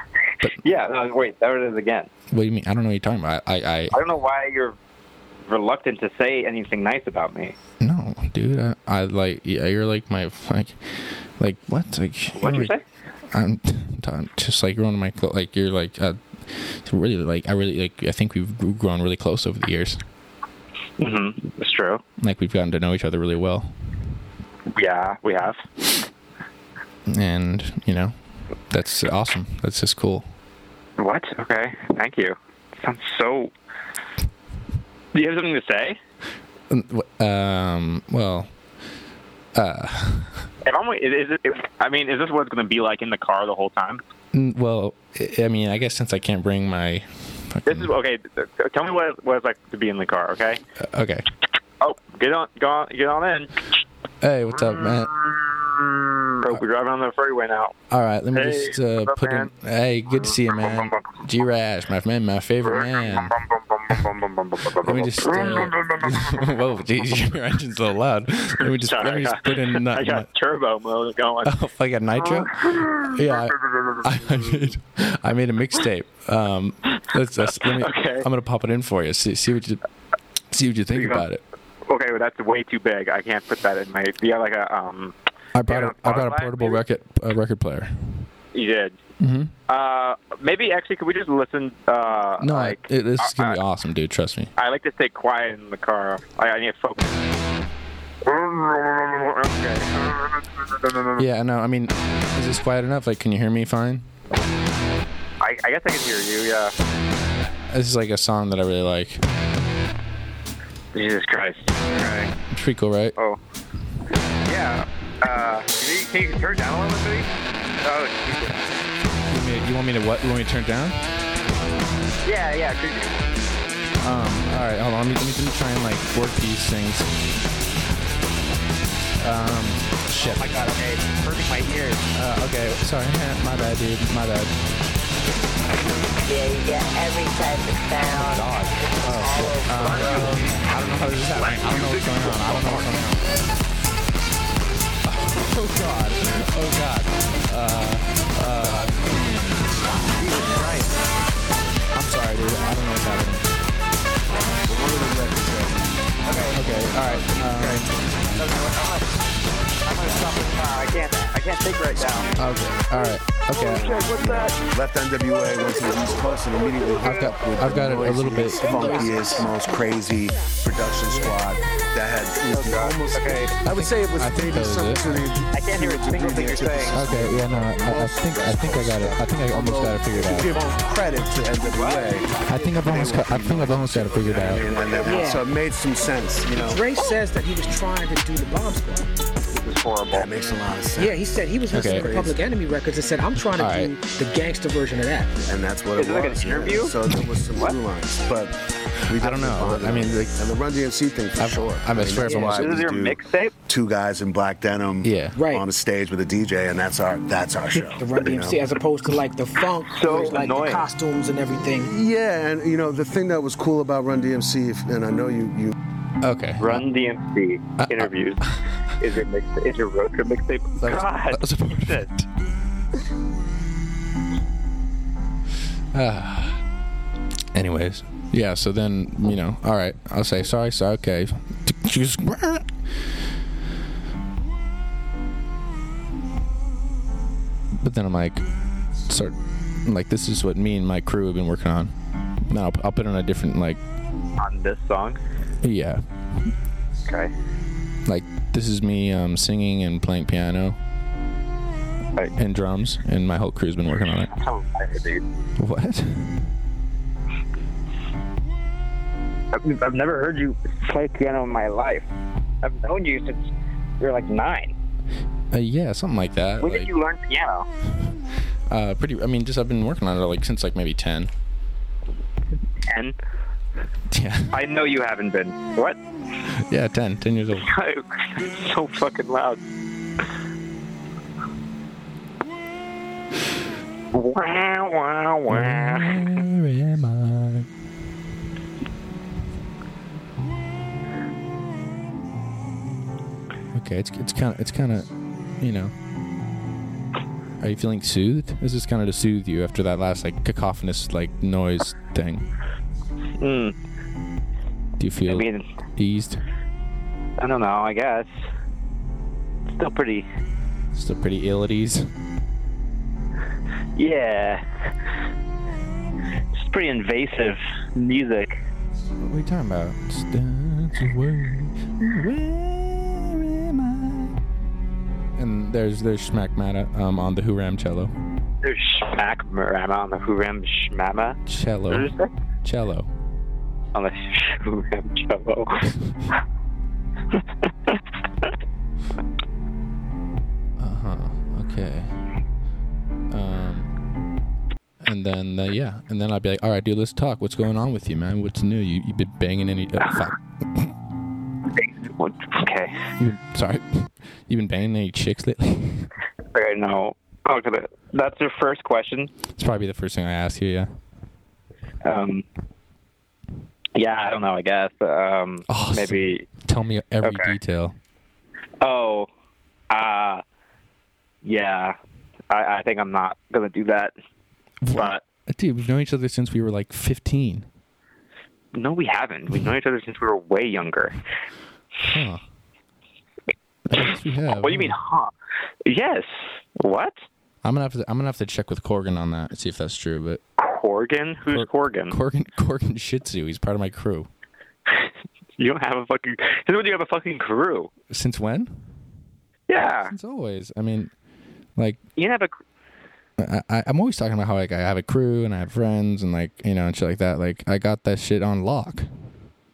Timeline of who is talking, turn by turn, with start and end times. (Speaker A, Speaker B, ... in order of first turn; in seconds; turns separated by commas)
Speaker A: 0.5-2.1, Speaker B: 2.3-4.0, Speaker A: 3.9-4.8, Speaker A: 5.5-7.6, Speaker B: 7.8-12.7, Speaker A: 12.4-12.8, Speaker B: 13.3-20.0, Speaker A: 21.0-22.0, Speaker B: 22.2-23.7, Speaker A: 24.7-25.7, Speaker B: 27.1-28.1, Speaker B: 28.7-30.3, Speaker A: 31.0-33.5, Speaker A: 35.1-36.0, Speaker B: 36.7-38.5, Speaker B: 39.5-40.5, Speaker A: 40.6-44.0, Speaker B: 44.3-47.9, Speaker A: 47.7-50.6, Speaker B: 50.8-51.3, Speaker A: 51.8-53.6, Speaker B: 54.2-55.2, Speaker A: 54.6-57.7, Speaker B: 57.9-63.4, Speaker A: 58.3-59.5, Speaker A: 60.2-61.0, Speaker A: 62.6-66.4, Speaker B: 64.8-70.3, Speaker A: 68.6-71.6, Speaker B: 71.5-79.8, Speaker A: 72.2-73.4, Speaker A: 74.0-74.5, Speaker A: 77.4-78.3, Speaker B: 80.5-81.4, Speaker A: 81.0-81.2, Speaker A: 81.9-85.2, Speaker B: 85.5-88.2, Speaker A: 85.7-86.8, Speaker A: 88.5-89.0, Speaker B: 89.2-89.5, Speaker A: 89.7-93.6, Speaker B: 92.4-94.5, Speaker A: 94.6-97.2, Speaker A: 98.2-101.2, Speaker B: 101.2-104.0, Speaker A: 105.4-106.7, Speaker B: 107.7-109.2, Speaker A: 110.9-112.3, Speaker B: 112.5-113.2, Speaker A: 114.5-117.3, Speaker A: 117.8-118.6, Speaker B: 119.3-121.0, Speaker A: 122.2-123.1, Speaker B: 124.0-127.1, Speaker B: 129.2-130.4, Speaker A: 130.2-132.1, Speaker B: 132.1-134.5, Speaker C: 136.3-140.4, Speaker B: 138.1-143.2, Speaker A: 139.7-140.7, Speaker A: 141.3-142.9, Speaker B: 145.1-149.3, Speaker A: 150.2-150.9, Speaker B: 151.9-153.5, Speaker D: 154.7-156.0, Speaker A: 156.3-156.6, Speaker B: 156.6-157.9, Speaker D: 156.6-158.4, Speaker A: 158.4-159.1, Speaker A: 159.9-162.3, Speaker D: 161.9-162.5, Speaker B: 162.4-163.9, Speaker A: 163.5-164.6, Speaker D: 163.7-186.8, Speaker B: 167.0-168.9, Speaker E: 168.6-169.6, Speaker E: 171.1-171.3, Speaker A: 172.5-173.5, Speaker B: 173.7-175.3, Speaker A: 175.5-177.0, Speaker B: 176.9-180.6, Speaker A: 181.7-182.5, Speaker B: 182.5-184.6, Speaker A: 184.6-185.1, Speaker E: 185.1-185.5, Speaker E: 186.6-189.1, Speaker A: 189.5-190.3, Speaker D: 190.1-191.2, Speaker E: 191.0-195.4, Speaker B: 191.7-192.1, Speaker D: 191.8-192.4, Speaker B: 193.6-193.9, Speaker D: 195.5-208.6, Speaker A: 196.0-196.9, Speaker B: 199.1-200.4, Speaker B: 201.4-202.8, Speaker E: 202.2-202.6, Speaker A: 202.4-203.5, Speaker B: 205.0-205.4, Speaker E: 205.3-205.7, Speaker E: 207.9-211.9, Speaker A: 209.9-210.9, Speaker D: 211.8-215.7, Speaker B: 216.2-216.8, Speaker A: 216.6-222.1, Speaker B: 217.8-218.6, Speaker B: 220.8-222.3, Speaker B: 225.9-226.6, Speaker B: 227.5-232.7, Speaker B: 237.8-238.4, Speaker B: 239.1-241.9, Speaker B: 242.5-243.8, Speaker A: 244.4-245.2, Speaker B: 245.6-246.1, Speaker B: 248.1-250.8, Speaker B: 252.4-254.3, Speaker A: 254.3-255.2, Speaker B: 255.6-256.5, Speaker A: 259.5-262.1, Speaker A: 262.6-263.5, Speaker A: 264.0-264.8, Speaker B: 265.5-266.9, Speaker A: 266.6-267.7, Speaker B: 268.7-271.3, Speaker A: 272.9-273.2, Speaker B: 274.1-274.5, Speaker A: 274.5-276.0, Speaker B: 276.7-277.7, Speaker A: 277.6-279.6, Speaker A: 284.1-286.4, Speaker B: 285.5-287.7, Speaker B: 293.7-295.1, Speaker B: 295.6-295.9, Speaker B: 297.6-302.5, Speaker A: 303.4-303.8, Speaker B: 305.0-306.4, Speaker A: 305.3-305.6, Speaker A: 307.4-308.3, Speaker A: 309.7-310.3, Speaker B: 310.9-312.1, Speaker A: 314.0-314.9, Speaker A: 316.6-318.6, Speaker B: 319.2-324.4, Speaker B: 325.4-328.1, Speaker A: 328.6-332.3, Speaker B: 331.5-332.1, Speaker B: 332.6-333.1, Speaker A: 333.9-335.9, Speaker B: 340.8-342.2, Speaker B: 343.3-343.9, Speaker B: 345.0-350.9, Speaker A: 351.8-353.0, Speaker B: 353.2-356.1, Speaker A: 356.5-359.3, Speaker B: 359.6-360.9, Speaker A: 362.0-362.4, Speaker A: 363.9-366.5, Speaker B: 365.7-368.0, Speaker A: 367.2-367.6, Speaker A: 368.8-369.3, Speaker A: 369.9-370.4, Speaker A: 371.4-372.0, Speaker A: 372.5-374.1, Speaker B: 374.8-377.7, Speaker A: 374.9-375.2, Speaker A: 378.7-381.2, Speaker B: 382.0-382.4, Speaker B: 383.9-384.9, Speaker A: 384.6-385.3, Speaker A: 385.9-387.2, Speaker B: 387.6-390.4, Speaker A: 390.6-392.2, Speaker B: 391.5-394.3, Speaker A: 394.9-397.9, Speaker B: 398.1-398.8, Speaker A: 399.7-400.1, Speaker B: 400.1-401.1, Speaker A: 402.2-402.5, Speaker B: 403.4-409.1